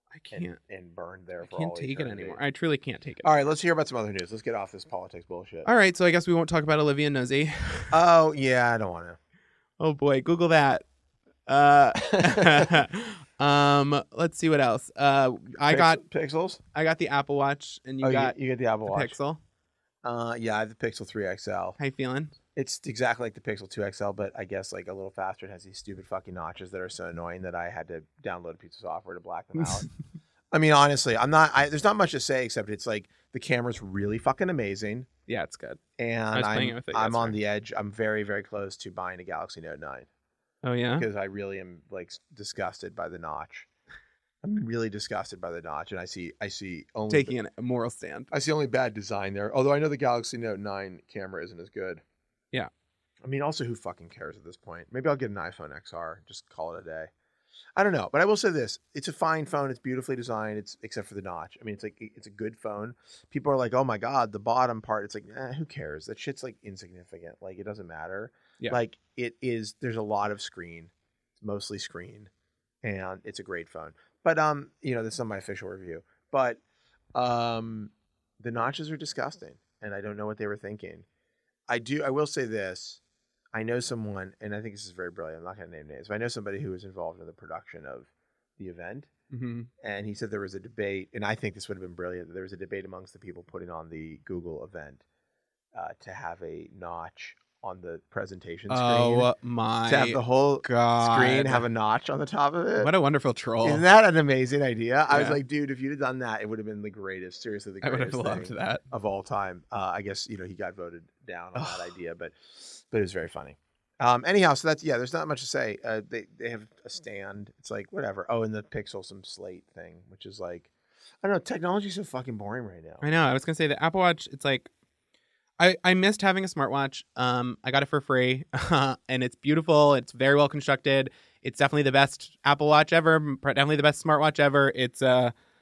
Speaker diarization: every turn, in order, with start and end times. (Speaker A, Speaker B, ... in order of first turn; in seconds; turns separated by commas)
Speaker A: 0.1-0.6, Speaker B: 0.3-2.4, Speaker A: 1.4-3.4, Speaker B: 3.2-5.7, Speaker A: 5.6-7.9, Speaker B: 7.9-9.2, Speaker A: 9.8-10.8, Speaker A: 11.5-16.0, Speaker B: 12.0-12.7, Speaker B: 15.7-16.6, Speaker A: 16.7-19.4, Speaker B: 18.0-19.2, Speaker B: 20.0-21.8, Speaker A: 21.8-22.4, Speaker B: 22.5-29.9, Speaker B: 30.5-35.1, Speaker A: 35.3-35.8, Speaker B: 36.0-40.1, Speaker A: 36.3-37.4, Speaker A: 40.6-41.0, Speaker B: 41.0-43.7, Speaker B: 44.4-47.4, Speaker A: 47.1-48.3, Speaker B: 48.3-52.0, Speaker B: 53.2-57.1, Speaker B: 57.8-72.3, Speaker B: 72.8-76.6, Speaker B: 77.1-81.0, Speaker B: 81.7-83.0, Speaker B: 83.5-89.1, Speaker A: 89.3-89.7, Speaker B: 89.8-95.0, Speaker B: 95.7-99.3, Speaker A: 98.7-101.6, Speaker B: 99.9-102.9, Speaker A: 102.8-103.8, Speaker B: 103.6-120.7, Speaker A: 105.1-105.4, Speaker A: 107.8-108.8, Speaker A: 111.5-111.9, Speaker B: 121.2-123.0, Speaker A: 123.0-124.7, Speaker A: 125.6-135.3